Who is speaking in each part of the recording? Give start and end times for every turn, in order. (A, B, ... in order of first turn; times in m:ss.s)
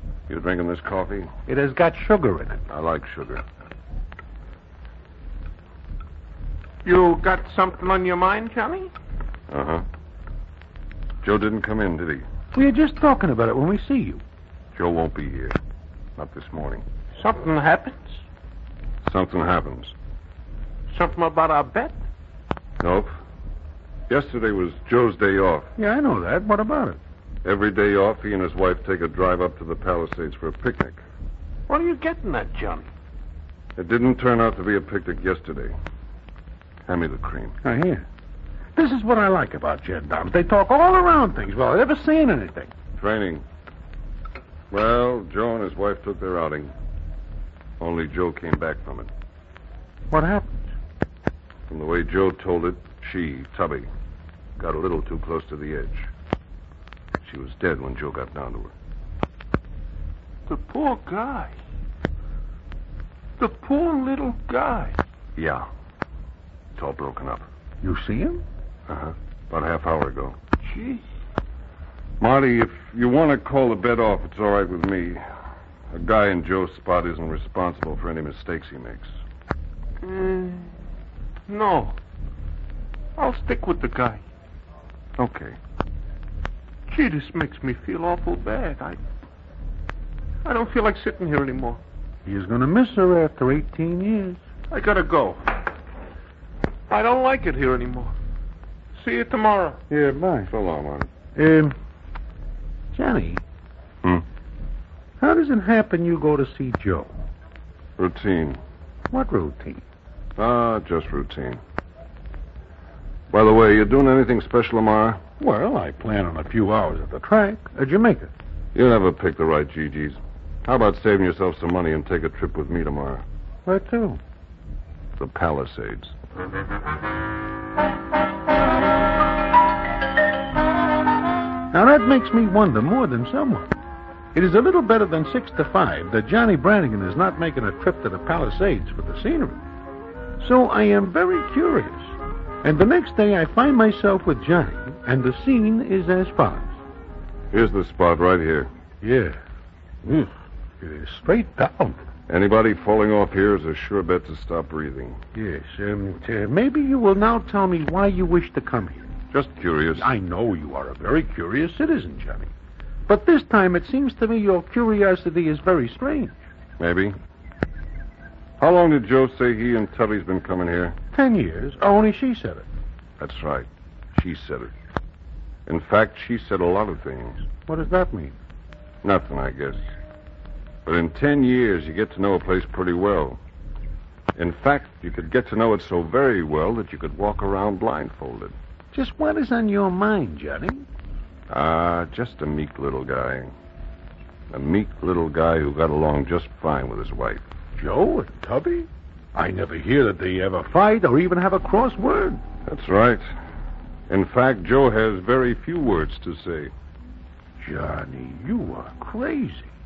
0:00.3-0:01.3 A
0:01.5-0:02.6 B
0:02.7-0:03.4 A
0:06.8-0:08.9 C
0:09.5-0:09.8 A
0:11.2-0:12.2 A
0:12.5-0:14.2 B
0:14.7-0:15.6 A
0:16.2-0:16.8 A
0:17.2-0:18.2 C
0:19.0-0:19.9 A
0:20.9-0:22.0 C
0:22.8-0:23.1 A
0:24.1-0:25.7 A
0:25.8-0:27.0 B
0:27.4-0:31.0 A
0:31.7-0:32.9 C
0:33.8-0:35.7 A
0:36.9-0:37.6 A
0:37.6-0:38.0 B
0:38.8-0:42.7 B
0:43.0-0:43.4 A
0:44.7-0:46.7 A
0:47.8-0:49.1 A
0:50.1-0:50.6 B
0:51.7-0:53.9 A
0:54.6-0:56.1 A
0:57.2-0:58.7 A
1:00.5-1:01.5 C
1:03.4-1:05.0 C
1:05.4-1:05.7 A
1:06.8-1:07.4 A
1:07.8-1:08.4 B
1:08.9-1:10.4 A
1:10.6-1:11.0 C
1:12.2-1:15.2 A
1:15.9-1:19.1 A
1:20.0-1:20.7 C
1:21.5-1:22.0 C
1:23.2-1:24.2 C
1:25.2-1:25.6 A
1:26.9-1:29.0 C
1:30.4-1:31.8 C
1:32.2-1:34.4 B
1:34.7-1:35.5 C
1:36.9-1:38.1 C
1:38.9-1:39.8 C
1:39.9-1:40.5 B
1:40.5-1:41.1 A
1:41.3-1:41.7 B
1:42.9-1:43.4 B
1:45.2-1:47.1 B
1:48.0-1:48.6 A
1:49.1-1:49.8 B
1:50.4-1:51.6 A
1:53.3-1:55.2 A
1:55.4-1:58.3 B
1:58.7-2:03.2 A
2:03.6-2:04.2 B
2:05.2-2:06.1 A
2:11.7-2:13.7 B
2:14.3-2:19.6 B
2:20.4-2:22.1 B
2:22.6-2:26.7 B
2:27.5-2:28.7 A
2:29.0-2:29.4 B
2:30.0-2:32.0 B
2:32.3-2:35.2 A
2:35.3-2:39.2 B
2:39.3-2:40.1 A
2:40.0-2:42.5 B
2:43.1-2:46.4 B
2:46.8-2:47.2 A
2:48.6-2:51.0 A
2:51.1-2:52.7 B
2:53.2-2:54.7 A
2:55.6-2:57.4 A
2:57.7-2:58.4 B
2:59.0-2:59.8 A
3:00.8-3:03.4 A
3:04.4-3:08.5 A
3:08.9-3:10.8 B
3:11.5-3:13.5 A
3:14.5-3:17.4 A
3:17.8-3:22.4 B
3:22.6-3:23.2 A
3:24.1-3:26.7 A
3:27.6-3:29.7 B